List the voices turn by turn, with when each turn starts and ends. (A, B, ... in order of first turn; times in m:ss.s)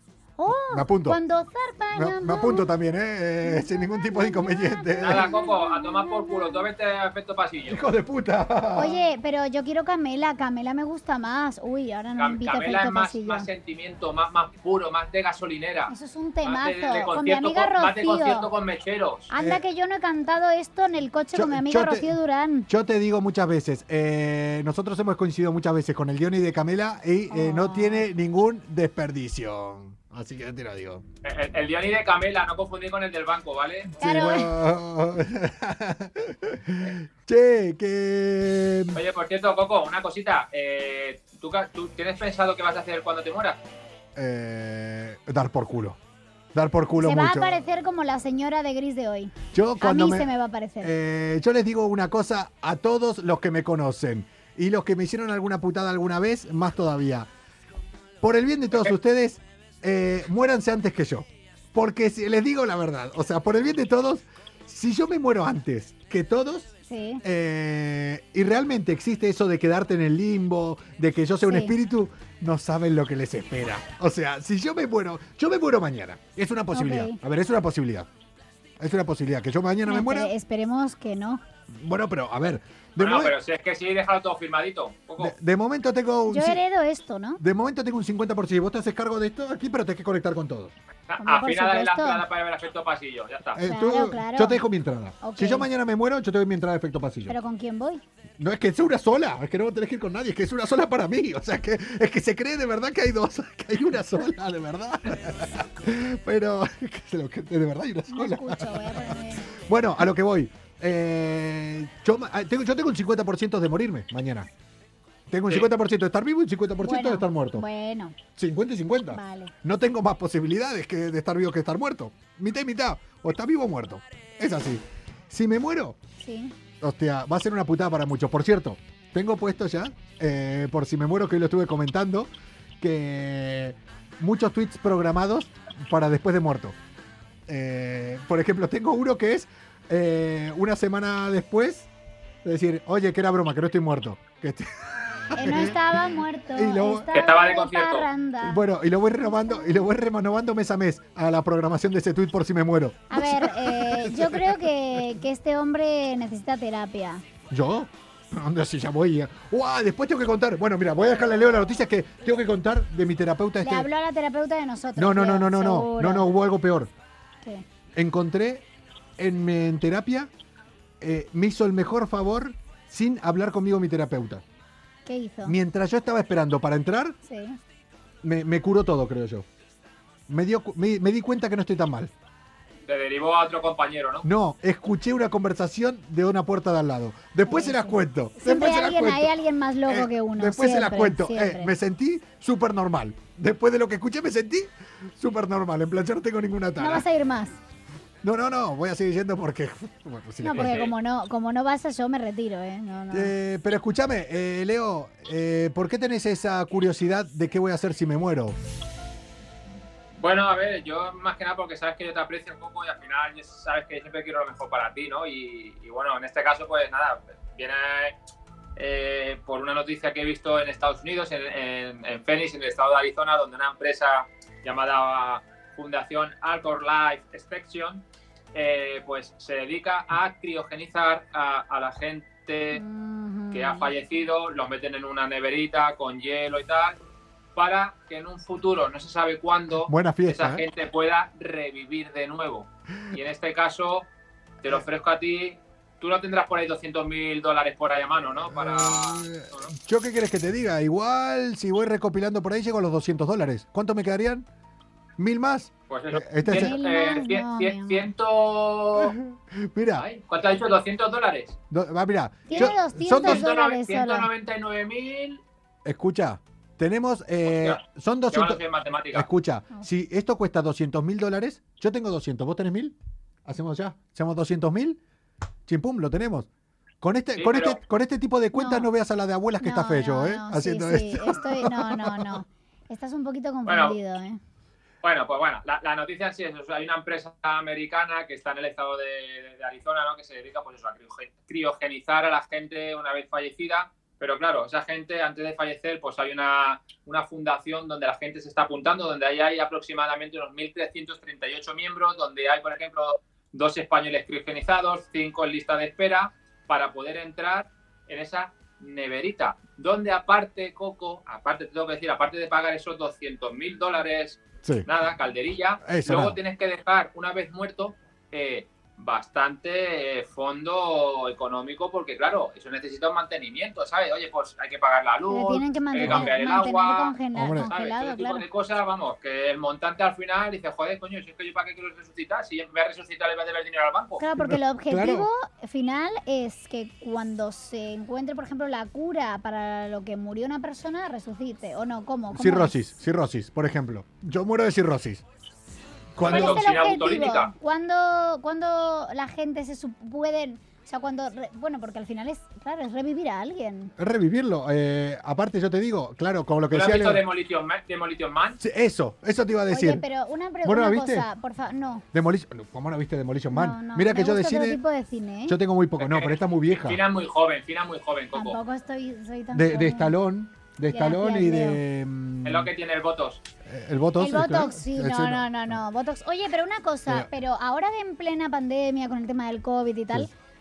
0:00.4-0:02.7 A
0:00.7-0:01.2 B
0:02.0-0:05.3 B
0:03.4-0:06.6 A
0:05.0-0:07.9 C
0:07.7-0:09.0 B
0:08.8-0:13.5 A
0:12.2-0:15.9 C
0:15.9-0:18.5 A
0:16.4-0:19.3 C
0:19.3-0:22.7 A
0:19.4-0:19.6 B
0:21.3-0:31.0 B
0:27.3-0:28.1 A
0:31.2-0:34.0 C
0:34.0-0:39.0 B
0:34.0-0:34.5 A
0:38.9-0:43.6 C
0:44.2-0:46.0 B
0:46.5-0:47.6 B
0:47.0-0:50.9 A
0:49.5-0:50.3 B
0:50.8-0:57.3 B
0:58.2-1:06.7 B
1:06.9-1:07.2 A
1:07.2-1:18.1 B
1:11.5-1:11.8 A
1:16.7-1:17.2 A
1:18.8-1:20.3 B
1:19.8-1:21.4 A
1:21.7-1:23.4 B
1:23.0-1:25.3 C
1:25.2-1:26.6 B
1:26.3-1:27.4 A
1:27.4-1:30.7 B
1:31.1-1:33.6 C
1:31.2-1:32.2 A
1:33.6-1:37.4 B
1:33.6-1:34.6 A
1:35.2-1:35.7 A
1:37.3-1:38.0 A
1:38.4-1:54.5 B
1:48.1-1:49.6 A
1:55.3-1:57.6 B
1:56.8-1:58.2 A
1:58.4-2:06.0 B
1:59.1-1:59.5 A
2:06.2-2:06.5 A
2:06.8-2:16.8 B
2:17.5-2:21.9 B
2:22.4-2:24.7 B
2:25.3-2:26.0 B
2:25.4-2:28.6 A
2:26.5-2:27.1 B
2:27.1-2:28.1 C
2:28.4-2:34.7 B
2:33.1-2:37.2 A
2:37.5-2:43.9 B
2:43.6-2:46.3 A
2:45.0-2:46.9 B
2:48.0-2:48.6 B
2:49.2-2:50.3 B
2:51.0-2:54.4 B
2:55.1-2:55.6 A
2:55.4-2:57.2 B
2:57.2-2:57.6 A
2:58.2-2:59.5 B
3:00.3-3:02.1 B
3:02.9-3:04.3 C
3:04.2-3:09.4 B
3:07.5-3:11.7 A
3:09.9-3:17.1 B
3:16.8-3:17.6 A
3:18.2-3:20.9 B
3:20.4-3:23.3 A
3:20.5-3:20.9 C
3:23.1-3:28.6 B
3:30.2-3:38.2 C
3:38.8-3:52.8 C
3:52.7-3:53.9 A
3:53.5-3:57.0 C
3:57.6-4:04.1 C
3:59.9-4:00.6 B
4:04.6-4:09.7 C
4:08.5-4:14.5 B
4:15.2-4:16.8 B
4:15.9-4:19.2 C
4:16.4-4:18.1 A
4:19.0-4:20.0 B
4:19.9-4:21.6 C
4:21.7-4:23.5 B
4:22.5-4:24.3 A
4:22.5-4:25.4 C
4:25.8-4:35.0 B
4:27.4-4:29.3 C
4:35.7-4:36.5 B
4:37.0-4:42.4 B
4:37.4-4:37.8 C
4:38.6-4:38.9 A
4:39.6-4:44.4 A
4:43.7-4:44.0 C
4:45.0-5:27.2 C
5:14.6-5:14.9 B
5:15.8-5:16.4 B
5:25.3-5:28.4 A
5:26.0-5:26.3 B
5:27.3-5:27.7 B
5:27.7-5:34.2 C
5:34.2-5:42.7 A
5:34.4-5:35.3 B
5:42.3-5:45.2 B
5:46.2-5:46.7 B
5:46.2-5:47.5 C
5:46.2-5:53.9 A
5:54.0-5:57.2 B
5:56.7-5:58.6 C
5:58.6-6:00.0 B
5:59.7-6:02.0 A
6:00.6-6:01.3 B
6:02.1-6:04.8 B
6:03.5-6:05.6 A
6:05.5-6:07.0 B
6:06.0-6:08.6 C
6:08.3-6:10.2 A
6:09.5-6:12.7 B
6:10.9-6:11.8 A
6:12.4-6:13.4 C
6:13.6-6:15.8 B
6:14.2-6:20.3 A